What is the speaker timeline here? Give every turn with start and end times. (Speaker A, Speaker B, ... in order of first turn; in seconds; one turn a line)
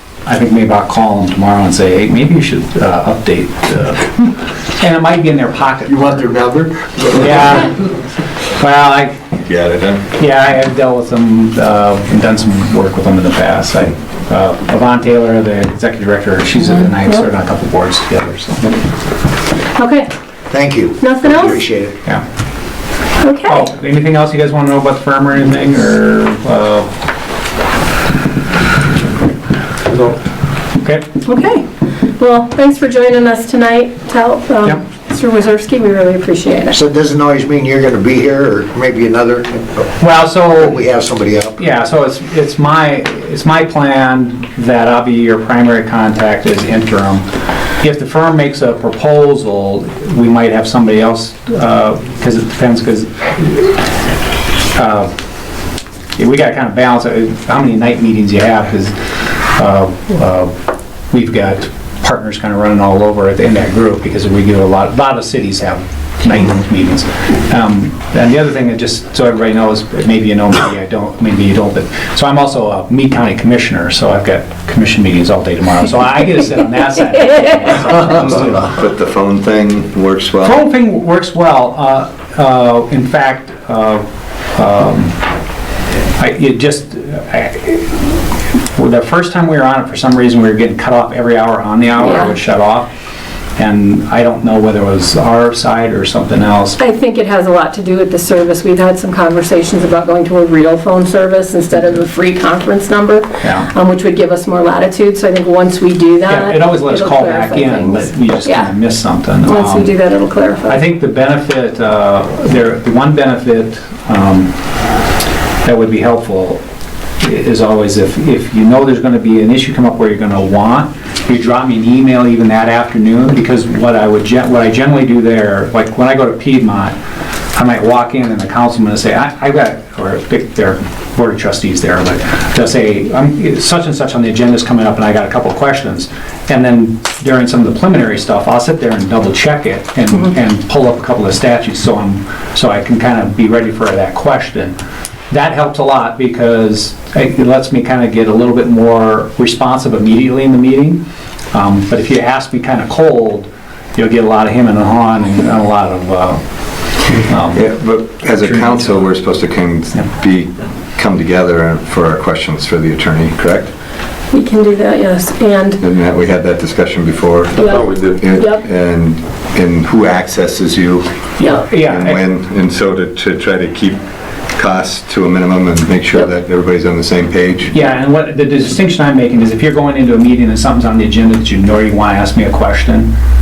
Speaker A: 0.3-6.3
Speaker B: 5.9-7.4
Speaker A: 7.1-7.9
Speaker A: 8.5-9.2
Speaker C: 9.4-10.0
Speaker A: 10.1-18.8
Speaker D: 19.8-20.1
Speaker B: 20.5-22.0
Speaker D: 21.0-21.6
Speaker D: 23.2-23.7
Speaker A: 23.5-26.9
Speaker A: 30.8-31.1
Speaker D: 31.2-36.8
Speaker B: 36.7-40.0
Speaker A: 40.0-40.8
Speaker B: 40.5-41.6
Speaker A: 41.6-47.3
Speaker A: 47.8-53.9
Speaker A: 54.7-55.1
Speaker A: 56.2-60.5
Speaker A: 61.1-78.8
Speaker C: 78.6-80.6
Speaker A: 80.4-85.2
Speaker A: 86.2-92.9
Speaker D: 92.0-92.3
Speaker A: 93.6-96.8
Speaker D: 96.8-108.7
Speaker A: 103.4-103.7
Speaker A: 106.3-109.9
Speaker D: 109.4-110.8
Speaker A: 110.7-114.5
Speaker A: 115.6-116.6
Speaker A: 117.2-127.0
Speaker A: 127.5-144.8
Speaker A: 145.3-156.4
Speaker A: 157.0-157.7
Speaker C: 157.5-163.7
Speaker A: 158.4-158.9
Speaker D: 164.3-165.8
Speaker C: 165.8-174.0
Speaker D: 167.6-168.6
Speaker A: 171.4-172.2
Speaker C: 174.5-177.7
Speaker A: 177.7-183.1